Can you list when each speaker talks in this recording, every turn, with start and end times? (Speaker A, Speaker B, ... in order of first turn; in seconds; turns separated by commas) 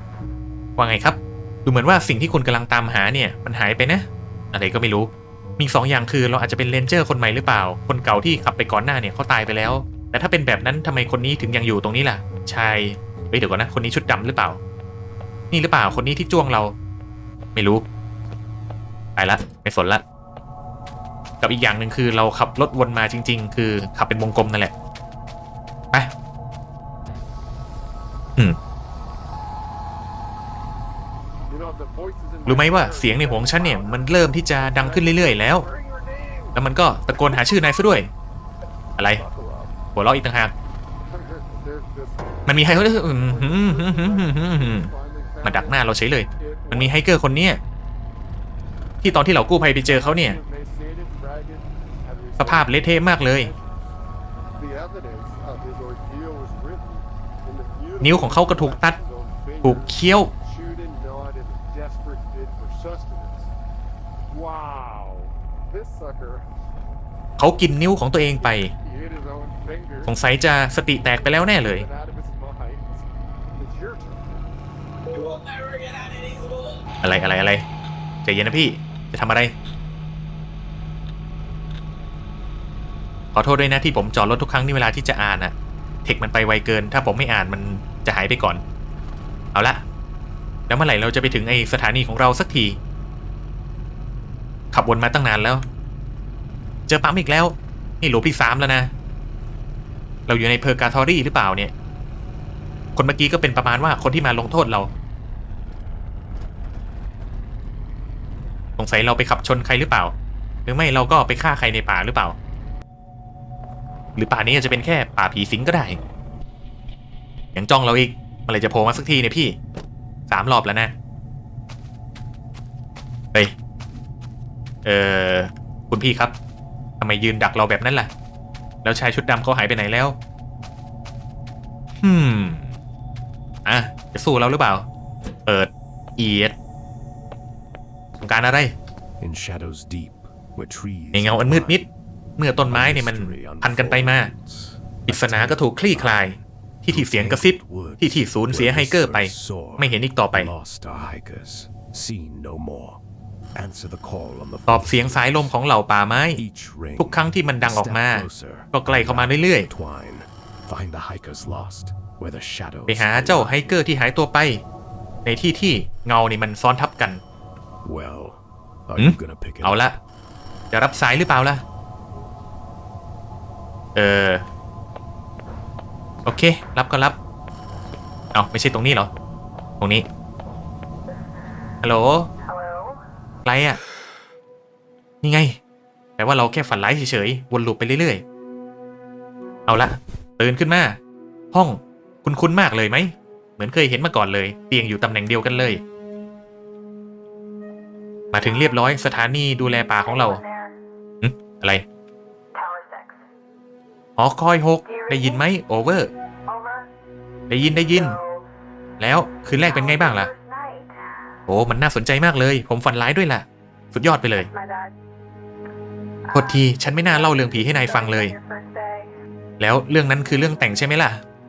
Speaker A: 0.8-14.6, Speaker A: 15.5-16.7, Speaker A: 17.6-17.8, Speaker A: 19.2-20.0, Speaker A: 21.4-24.7, Speaker B: 31.5-36.6, Speaker A: 32.5-35.7, Speaker A: 36.5-38.1, Speaker A: 39.0-39.2, Speaker B: 39.1-39.8, Speaker A: 40.0-40.5, Speaker B: 41.1-47.0, Speaker A: 42.5-44.9, Speaker A: 45.4-47.6, Speaker A: 49.0-50.4, Speaker B: 49.8-53.6, Speaker A: 52.4-53.5, Speaker B: 54.6-63.5, Speaker A: 58.0-59.0, Speaker A: 59.6-60.3, Speaker B: 64.3-66.5, Speaker A: 67.4-68.7, Speaker B: 68.4-70.2, Speaker A: 70.1-71.9, Speaker B: 71.1-74.3, Speaker A: 77.0-77.6, Speaker A: 78.2-79.5, Speaker A: 83.3-85.5, Speaker A: 86.0-88.6, Speaker A: 89.5-89.8, Speaker A: 90.7-92.8, Speaker A: 94.7-95.7, Speaker A: 96.9-98.9, Speaker A: 100.3-101.7, Speaker A: 103.0-104.9, Speaker A: 108.8-110.2, Speaker A: 110.7-112.4, Speaker A: 114.2-116.0, Speaker A: 117.5-119.6, Speaker A: 120.3-120.9, Speaker A: 124.8-126.3, Speaker A: 127.0-128.1, Speaker A: 128.8-130.2, Speaker A: 132.0-132.7, Speaker A: 133.7-134.9, Speaker A: 135.5-136.6, Speaker A: 138.2-138.7, Speaker C: 139.2-141.8, Speaker A: 141.1-141.9, Speaker A: 142.4-144.3, Speaker C: 142.7-153.0, Speaker A: 145.1-150.5, Speaker C: 153.6-155.5, Speaker A: 154.7-156.4, Speaker C: 156.4-163.7, Speaker A: 157.0-159.7, Speaker A: 162.9-164.6, Speaker A: 165.2-167.2, Speaker C: 167.8-169.8, Speaker A: 169.0-170.0, Speaker A: 170.7-171.6, Speaker A: 173.9-174.4, Speaker A: 176.3-177.2, Speaker A: 178.3-179.1, Speaker A: 179.8-180.1, Speaker A: 181.8-182.3, Speaker A: 183.4-183.8, Speaker A: 185.2-185.6, Speaker A: 186.2-188.2, Speaker A: 189.7-191.0, Speaker A: 191.5-195.8, Speaker A: 198.3-200.4, Speaker D: 200.4-200.7, Speaker A: 201.2-201.8, Speaker D: 202.6-203.2, Speaker A: 204.2-206.1, Speaker D: 206.5-206.8, Speaker A: 207.5-208.2, Speaker A: 209.0-210.3, Speaker D: 210.3-211.2, Speaker A: 211.5-214.5, Speaker D: 214.6-214.9, Speaker A: 216.3-218.4, Speaker D: 218.3-219.1, Speaker A: 219.6-221.2